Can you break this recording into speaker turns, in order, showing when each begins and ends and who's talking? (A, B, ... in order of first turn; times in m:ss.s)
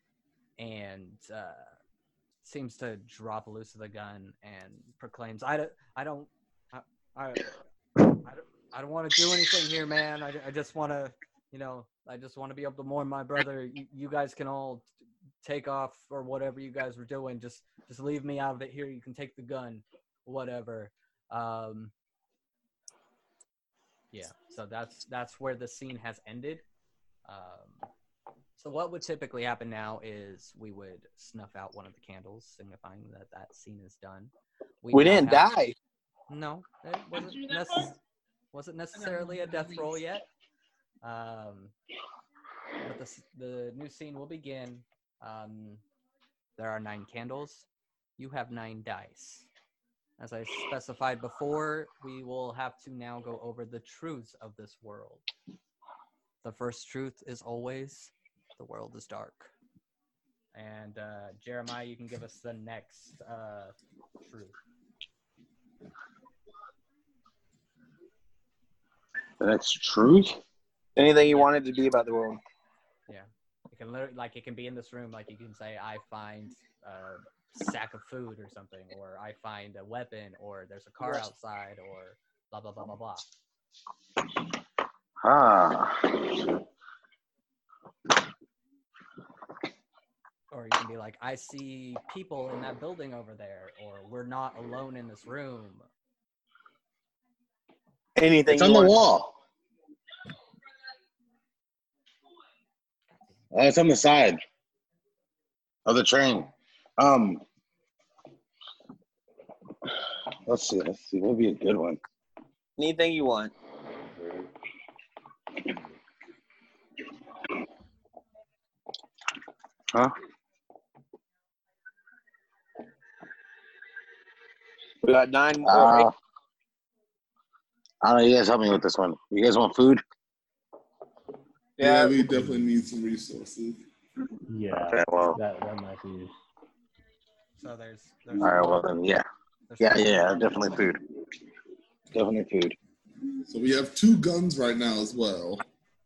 0:00.6-0:01.8 A
0:02.4-0:07.6 A
0:08.2-0:14.9 A
0:15.4-0:21.9 A
0:24.1-0:26.6 A
0:27.3-0:27.9 A
0:28.6-0:35.5 A
0:34.9-0:35.8 B
0:36.3-0:38.0 A
0:38.5-0:40.2 A
0:41.0-0:41.7 A
0:42.8-0:45.8 A
0:46.6-0:49.5 A
0:50.2-0:55.2 A
0:56.4-0:59.5 A
1:00.5-1:04.6 A
1:09.4-1:10.4 C
1:11.0-1:12.4 B
1:11.3-1:11.5 A
1:13.1-1:23.3 A
1:25.2-1:26.4 C
1:30.5-1:35.9 A
1:38.2-1:39.0 B
1:38.5-1:39.4 C
1:43.2-1:43.4 A
1:43.5-1:44.4 C
1:45.9-1:47.4 C
1:50.5-1:52.0 C
1:52.8-1:53.5 B
2:05.0-2:06.1 B
2:05.6-2:06.1 C
2:08.0-2:10.0 C
2:11.8-2:12.2 B
2:11.8-2:13.8 D
2:12.3-2:12.7 E
2:14.5-2:16.3 E
2:14.9-2:15.4 C
2:17.6-2:18.9 A
2:18.4-2:19.3 C
2:19.7-2:20.4 A
2:19.8-2:21.0 C
2:22.1-2:22.8 C
2:23.5-2:25.6 D